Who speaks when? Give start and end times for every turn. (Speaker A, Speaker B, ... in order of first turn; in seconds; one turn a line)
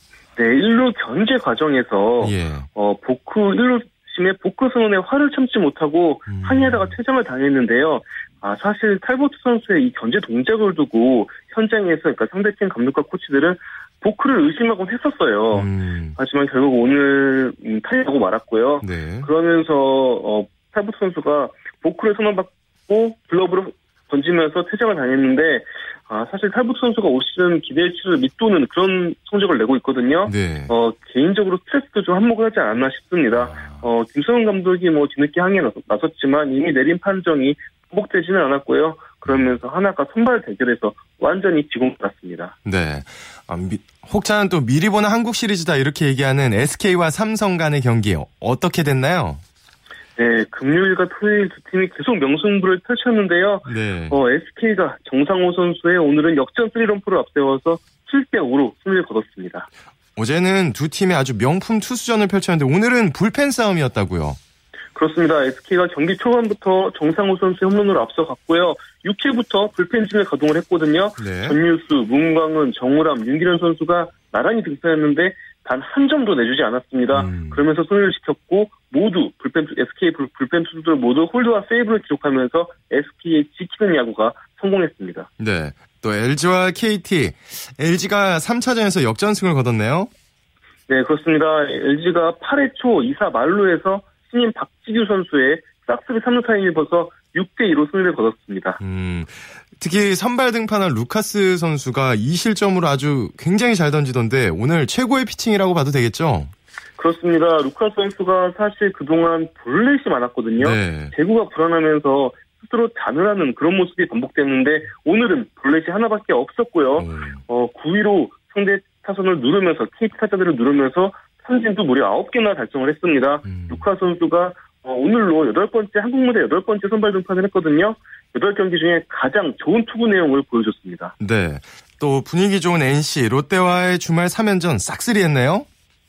Speaker A: 0.4-42.5
Speaker B: 2.2-2.7
Speaker B: 6.3-7.0
Speaker B: 15.5-16.2
Speaker B: 18.8-19.3
Speaker B: 30.3-30.7
Speaker B: 33.4-33.9
Speaker B: 39.3-39.5
Speaker B: 42.6-49.4
Speaker A: 50.2-59.7
Speaker B: 53.6-54.2
Speaker B: 60.2-64.4
Speaker A: 65.0-85.3
Speaker B: 71.2-71.6
Speaker B: 77.1-77.6
Speaker B: 85.4-90.1
Speaker A: 90.9-98.8
Speaker B: 98.8-106.5
Speaker A: 107.0-131.1
Speaker B: 110.6-111.1
Speaker B: 117.0-117.4
Speaker B: 123.5-123.8
Speaker B: 131.2-135.7